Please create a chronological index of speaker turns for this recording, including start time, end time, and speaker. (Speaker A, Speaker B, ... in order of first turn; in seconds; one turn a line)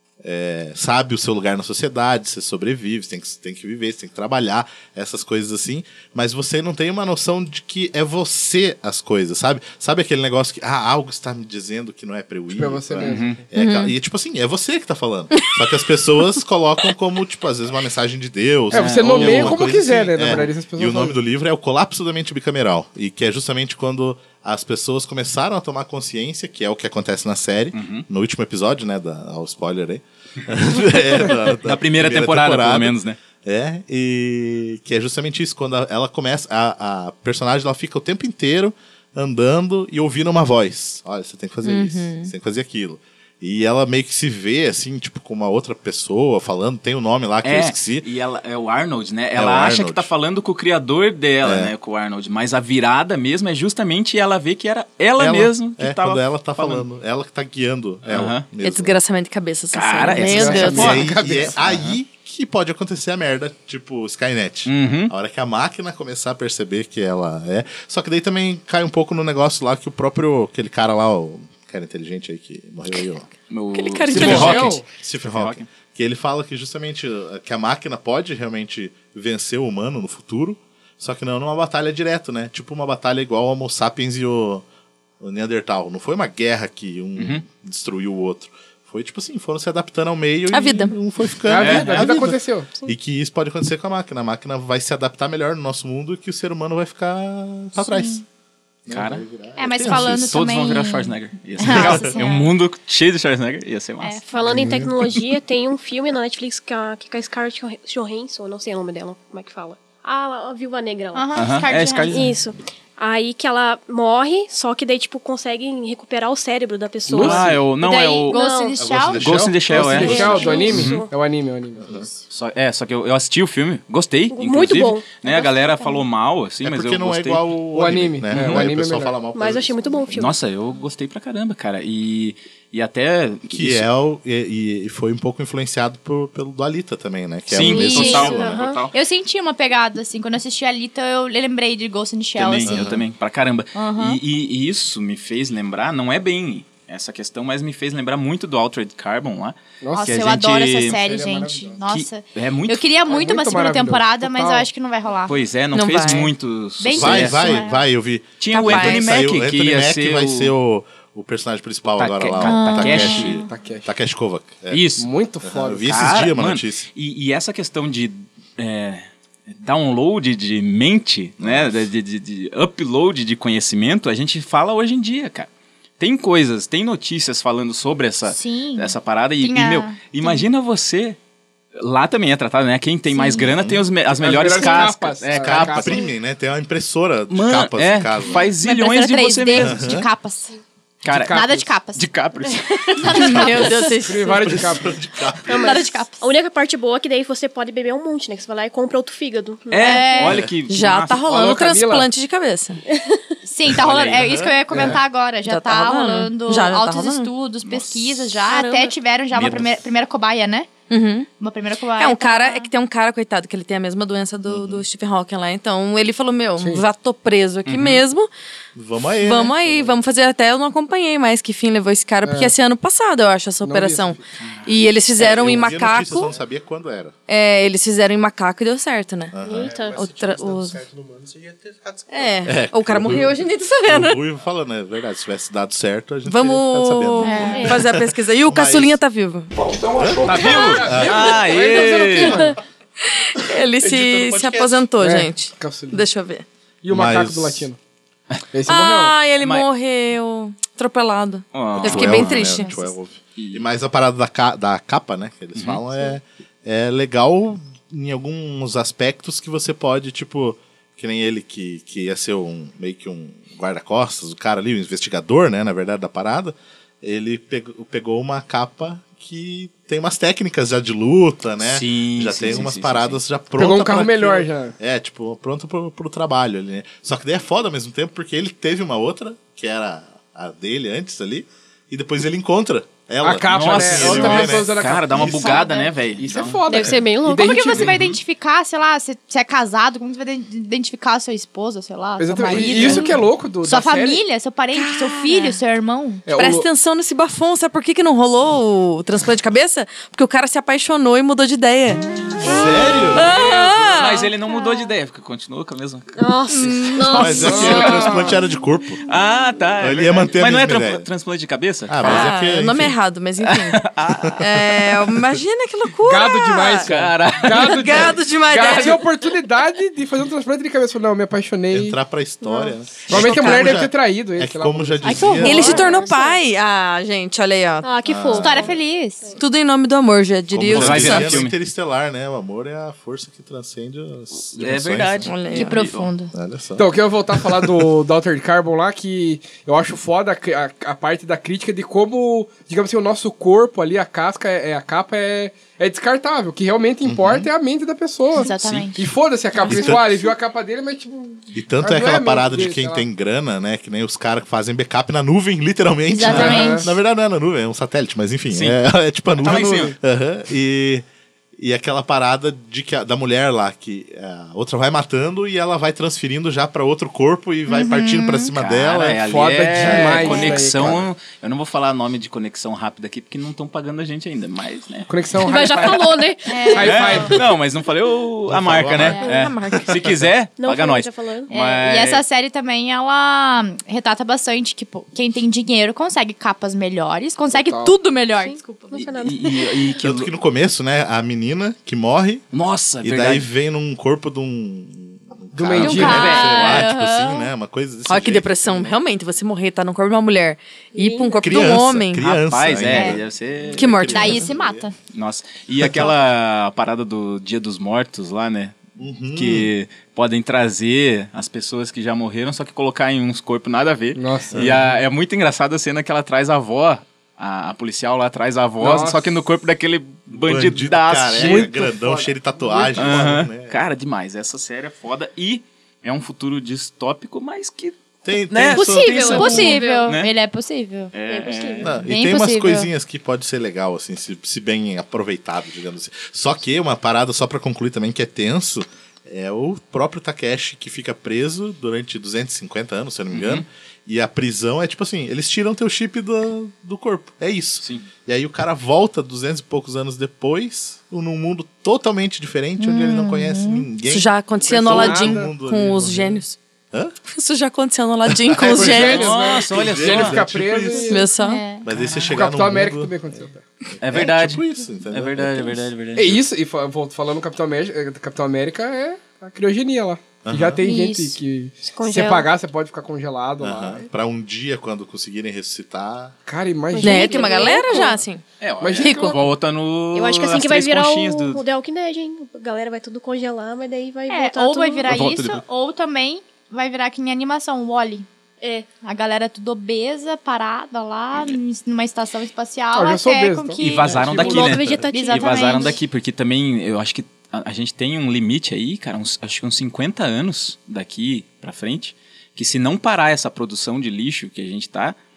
Speaker A: 0.2-48.0
Speaker B: 12.5-13.4
Speaker C: 13.0-13.4
Speaker D: 13.5-13.9
Speaker B: 18.7-21.2
Speaker C: 18.7-19.6
Speaker C: 27.7-28.0
Speaker C: 31.6-33.2
Speaker D: 41.6-42.3
Speaker C: 47.4-56.8
Speaker A: 49.3-50.1
Speaker A: 51.4-51.7
Speaker A: 55.2-59.0
Speaker C: 58.1-58.5
Speaker D: 58.6-61.0
Speaker C: 59.7-62.0
Speaker B: 60.2-61.6
Speaker A: 60.7-73.3
Speaker C: 64.7-65.1
Speaker C: 73.5-75.7
Speaker D: 73.7-74.8
Speaker B: 74.1-74.8
Speaker A: 74.1-84.6
Speaker A: 85.2-98.2
Speaker C: 87.2-87.4
Speaker D: 90.5-91.0
Speaker B: 91.5-92.7
Speaker C: 91.6-92.1
Speaker E: 97.8-98.2
Speaker A: 98.8-100.4
Speaker C: 98.9-99.2
Speaker E: 99.6-102.5
Speaker C: 99.8-104.2
Speaker A: 101.6-102.2
Speaker F: 104.3-111.3
Speaker A: 104.5-104.9
Speaker E: 111.1-112.2
Speaker C: 111.3-112.3
Speaker F: 112.1-117.5
Speaker B: 117.1-117.6
Speaker C: 117.2-118.4
Speaker E: 117.8-119.2
Speaker F: 118.2-118.8
Speaker A: 118.8-120.8
Speaker C: 119.2-121.1
Speaker B: 119.7-122.0
Speaker F: 120.0-121.1
Speaker A: 121.8-122.0
Speaker C: 122.3-127.5
Speaker F: 124.3-125.2
Speaker E: 125.2-126.0
Speaker A: 126.6-130.3
Speaker B: 127.7-129.2
Speaker C: 128.3-128.7
Speaker F: 129.3-130.3
Speaker C: 130.2-133.8
Speaker A: 133.5-138.6
Speaker C: 137.5-138.9
Speaker E: 137.6-138.4
Speaker F: 137.7-138.9
Speaker E: 138.9-142.9
Speaker C: 142.3-151.1
Speaker A: 142.6-143.0
Speaker E: 143.7-144.2
Speaker B: 149.8-150.3
Speaker E: 149.9-155.4
Speaker B: 150.8-151.8
Speaker C: 151.9-152.9
Speaker B: 153.0-154.7
Speaker C: 155.3-157.6
Speaker D: 155.7-156.3
Speaker E: 156.8-157.8
Speaker A: 156.9-164.9
Speaker C: 158.4-160.5
Speaker D: 158.5-159.2
Speaker C: 162.0-163.4
Speaker E: 162.4-163.3
Speaker B: 163.4-163.9
Speaker C: 164.7-165.1
Speaker B: 165.0-165.9
Speaker A: 165.4-166.9
Speaker C: 165.9-175.5
Speaker A: 171.4-171.8
Speaker C: 176.0-181.2
Speaker E: 178.3-180.4
Speaker C: 181.8-186.0
Speaker E: 183.1-183.5
Speaker A: 183.6-183.8
Speaker B: 184.1-186.1
Speaker A: 185.3-188.5
Speaker C: 187.3-190.0
Speaker E: 188.6-190.6
Speaker A: 189.5-190.0
Speaker C: 191.0-191.4
Speaker B: 191.1-191.7
Speaker E: 191.2-192.0
Speaker C: 191.9-193.7
Speaker E: 192.9-193.9
Speaker D: 193.0-194.6
Speaker B: 194.0-195.0
Speaker A: 194.4-195.8
Speaker F: 195.4-200.3
Speaker E: 195.6-196.2
Speaker C: 199.7-201.2
Speaker E: 199.7-200.4
Speaker D: 200.7-202.8
Speaker B: 201.2-202.1
Speaker F: 202.9-203.2
Speaker E: 203.4-210.7
Speaker A: 203.7-205.0
Speaker C: 203.8-204.4
Speaker D: 205.4-207.3
Speaker C: 207.7-208.3
Speaker F: 208.5-208.9
Speaker C: 209.3-209.7
Speaker D: 210.9-211.3
Speaker E: 211.4-212.7
Speaker D: 212.0-218.3
Speaker A: 214.5-214.8
Speaker B: 216.6-216.8
Speaker C: 217.7-218.0
Speaker A: 218.7-219.8
Speaker D: 219.2-226.3
Speaker B: 222.2-222.5
Speaker B: 223.6-224.2
Speaker C: 224.4-224.8
Speaker A: 225.2-227.1
Speaker D: 227.3-230.8
Speaker A: 229.3-229.8
Speaker F: 229.4-230.1
Speaker G: 230.7-231.6
Speaker D: 232.1-234.2
Speaker A: 232.4-239.0
Speaker D: 236.2-239.5
Speaker E: 237.2-237.7
Speaker G: 239.6-241.0
Speaker A: 239.9-241.4
Speaker B: 240.2-242.6
Speaker C: 240.3-242.5
Speaker D: 243.0-246.4
Speaker A: 243.8-244.8
Speaker B: 245.0-246.1
Speaker B: 246.8-247.8
Speaker A: 246.9-247.7
Speaker B: 248.5-249.1
Speaker D: 248.7-252.9
Speaker C: 249.4-249.7
Speaker C: 251.5-252.6
Speaker A: 251.7-285.6
Speaker C: 253.4-253.7
Speaker C: 255.5-255.8
Speaker C: 271.6-273.2
Speaker B: 273.5-274.7
Speaker B: 283.2-285.6
Speaker C: 283.5-286.9
Speaker E: 285.4-285.9
Speaker B: 286.2-288.0
Speaker F: 286.7-287.9
Speaker E: 287.2-296.2
Speaker B: 292.2-294.2
Speaker A: 292.9-293.2
Speaker D: 294.7-295.6
Speaker B: 296.2-296.7
Speaker D: 296.4-304.3
Speaker A: 302.4-303.3
Speaker C: 302.9-306.1
Speaker F: 306.1-308.3
Speaker D: 306.5-307.4
Speaker A: 307.1-309.0
Speaker B: 307.4-308.2
Speaker C: 307.6-307.9
Speaker C: 309.1-312.3
Speaker A: 309.8-311.1
Speaker A: 311.9-312.9
Speaker D: 312.0-313.8
Speaker C: 313.4-315.1
Speaker D: 314.4-316.9
Speaker B: 316.1-322.0
Speaker C: 316.9-317.8
Speaker D: 317.5-319.1
Speaker A: 321.7-325.8
Speaker F: 322.4-322.7
Speaker B: 323.1-325.6
Speaker D: 323.2-323.7
Speaker F: 325.1-326.4
Speaker E: 325.1-325.9
Speaker D: 325.4-327.9
Speaker F: 327.8-329.4
Speaker A: 328.1-328.7
Speaker E: 328.3-329.3
Speaker D: 329.4-331.3
Speaker A: 330.5-337.8
Speaker C: 330.7-331.6
Speaker C: 334.5-336.1
Speaker D: 335.2-335.8
Speaker E: 335.5-336.3
Speaker B: 336.8-353.0
Speaker A: 347.0-347.5
Speaker E: 348.3-349.0
Speaker C: 348.5-348.9
Speaker E: 349.5-350.0
Speaker A: 349.7-350.1
Speaker A: 351.5-361.0
Speaker E: 356.1-356.9
Speaker B: 356.3-356.9
Speaker C: 358.5-358.8
Speaker C: 359.4-359.9
Speaker A: 361.6-371.1
Speaker E: 367.7-368.5
Speaker C: 368.5-375.1
Speaker B: 369.2-370.9
Speaker B: 375.1-377.4
Speaker F: 375.4-377.2
Speaker E: 376.4-377.3
Speaker C: 376.8-382.2
Speaker A: 378.5-380.3
Speaker E: 379.2-379.7
Speaker F: 379.2-379.5
Speaker F: 380.6-381.5
Speaker E: 381.5-388.9
Speaker B: 387.5-387.9
Speaker F: 388.3-389.9
Speaker C: 388.9-390.3
Speaker A: 390.0-392.4
Speaker C: 392.5-393.5
Speaker A: 393.0-398.9
Speaker B: 395.5-396.4
Speaker E: 395.8-397.5
Speaker C: 395.8-396.8
Speaker D: 396.0-396.4
Speaker D: 398.1-402.3
Speaker F: 400.9-401.6
Speaker A: 401.4-404.9
Speaker C: 402.2-404.1
Speaker E: 402.9-403.2
Speaker D: 403.8-404.5
Speaker E: 404.1-404.9
Speaker C: 405.1-408.8
Speaker A: 405.8-406.1
Speaker A: 409.0-409.7
Speaker C: 409.3-421.7
Speaker B: 414.1-414.7
Speaker A: 414.5-414.8
Speaker B: 418.8-419.2
Speaker A: 420.4-423.8
Speaker B: 421.4-423.4
Speaker C: 422.9-430.3
Speaker A: 428.2-429.8
Speaker F: 428.7-430.2
Speaker E: 429.2-431.1
Speaker C: 431.1-431.9
Speaker F: 431.3-431.9
Speaker A: 431.8-457.1
Speaker E: 432.0-432.9
Speaker C: 443.3-443.6
Speaker E: 452.8-453.8
Speaker D: 454.1-456.6
Speaker B: 454.8-455.5
Speaker D: 457.3-459.3
Speaker A: 458.3-461.2
Speaker B: 458.6-461.2
Speaker C: 459.0-460.4
Speaker D: 461.1-461.6
Speaker E: 461.3-462.3
Speaker A: 461.8-463.1
Speaker B: 462.3-463.6
Speaker C: 464.0-466.4
Speaker A: 464.0-465.9
Speaker B: 466.1-474.1
Speaker A: 470.4-470.8
Speaker E: 470.8-471.4
Speaker F: 471.9-472.5
Speaker A: 473.6-476.3
Speaker B: 476.4-478.1
Speaker F: 476.9-478.2
Speaker D: 477.0-478.4
Speaker C: 478.6-481.6
Speaker B: 478.8-479.4
Speaker D: 479.0-479.4
Speaker F: 480.1-485.1
Speaker E: 484.3-488.3
Speaker C: 485.1-485.6
Speaker F: 488.6-488.9
Speaker E: 489.0-494.1
Speaker B: 492.9-494.8
Speaker C: 493.8-505.1
Speaker F: 494.4-496.0
Speaker E: 495.1-495.9